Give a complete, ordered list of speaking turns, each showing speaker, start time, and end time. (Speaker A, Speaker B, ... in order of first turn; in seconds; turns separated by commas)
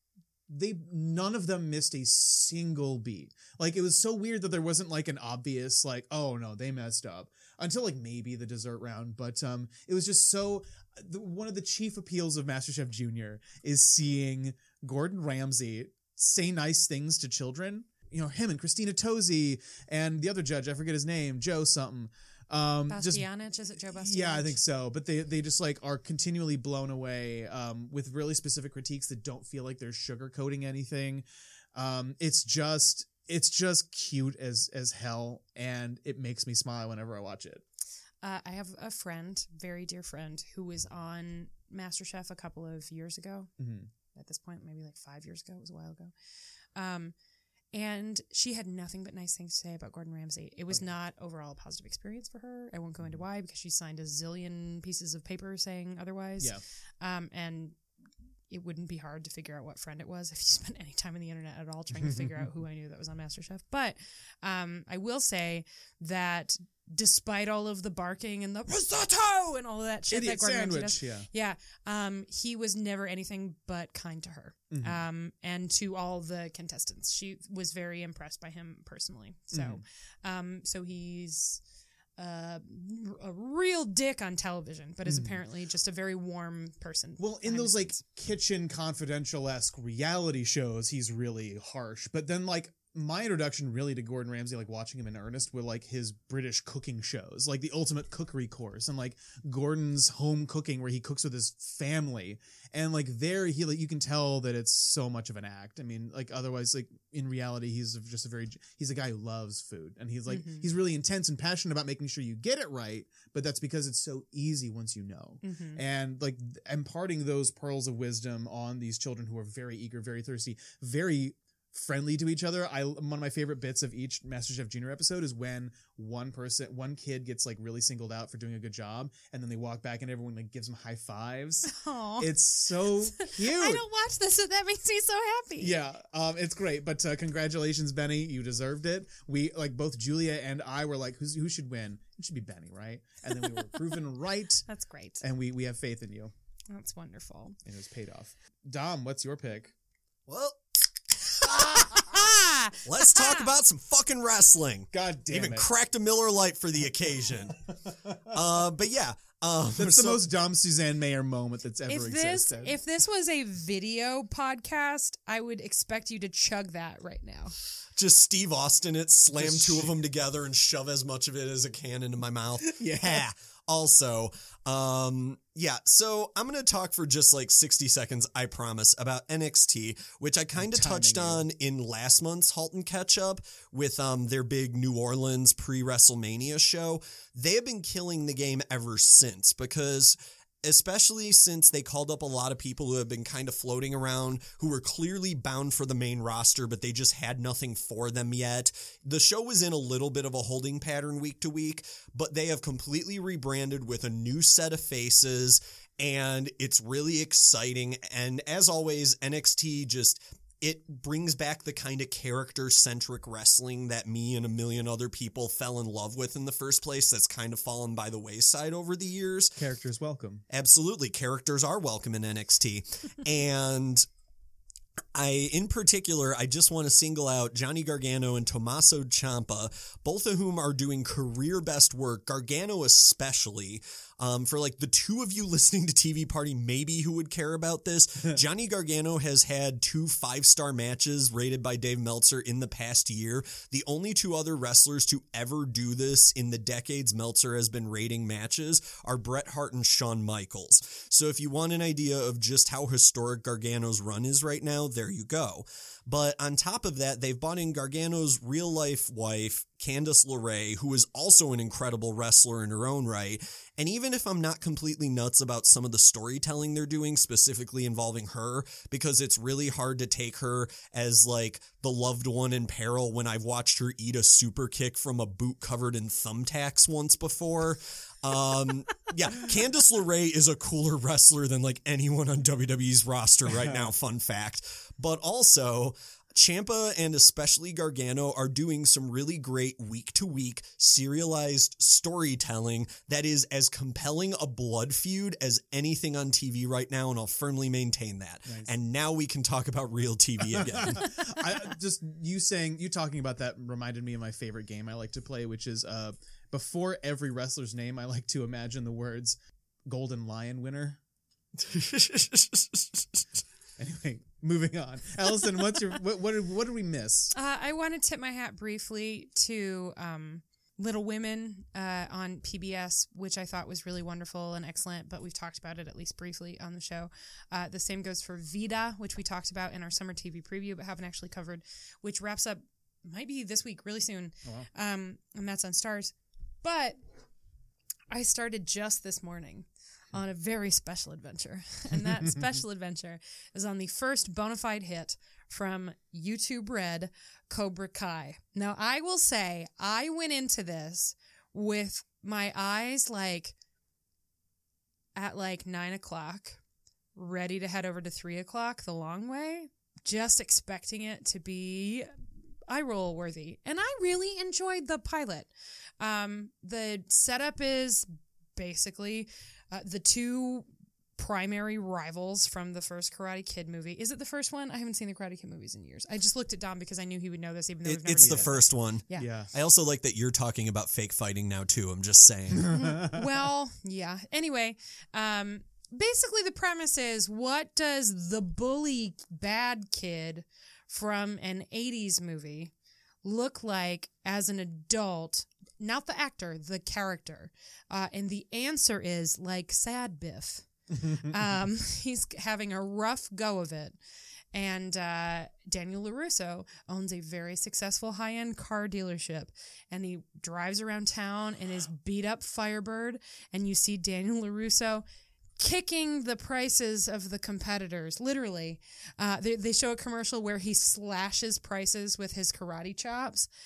Speaker A: 0.5-23.3, Speaker B: 22.9-24.6, Speaker A: 23.9-37.6, Speaker B: 38.2-43.5, Speaker A: 43.6-43.9, Speaker B: 44.1-46.1, Speaker B: 46.8-47.1, Speaker B: 47.7-57.8, Speaker B: 58.5-81.6, Speaker A: 62.0-62.4, Speaker A: 70.1-71.3, Speaker A: 74.7-75.0, Speaker A: 79.5-79.8, Speaker B: 82.2-88.0, Speaker A: 85.1-85.4, Speaker A: 87.2-133.8, Speaker B: 110.3-110.7, Speaker B: 115.4-115.8, Speaker B: 131.7-135.8, Speaker A: 135.6-144.7, Speaker B: 144.7-145.2, Speaker A: 145.2-146.3, Speaker B: 146.7-147.6, Speaker A: 147.7-149.7, Speaker C: 150.3-150.8, Speaker C: 151.4-152.2, Speaker B: 151.4-153.5, Speaker C: 152.8-157.6, Speaker A: 154.9-155.7, Speaker C: 158.2-160.2, Speaker A: 159.7-162.8, Speaker B: 161.9-167.6, Speaker C: 168.0-219.6, Speaker A: 169.3-170.0, Speaker A: 172.6-173.3, Speaker A: 180.6-181.5, Speaker A: 219.6-220.4, Speaker C: 220.5-224.1, Speaker C: 225.2-301.3, Speaker A: 283.6-283.9, Speaker A: 300.5-311.0, Speaker C: 311.6-313.2, Speaker A: 313.8-317.3, Speaker B: 317.3-337.0, Speaker B: 338.1-353.6, Speaker B: 355.2-356.6, Speaker B: 357.2-362.1, Speaker B: 362.7-379.3, Speaker C: 377.9-382.7, Speaker A: 378.2-378.6, Speaker A: 379.2-379.5, Speaker A: 382.6-383.2, Speaker B: 382.7-392.7, Speaker B: 393.2-404.0, Speaker B: 404.5-415.0, Speaker B: 415.6-423.5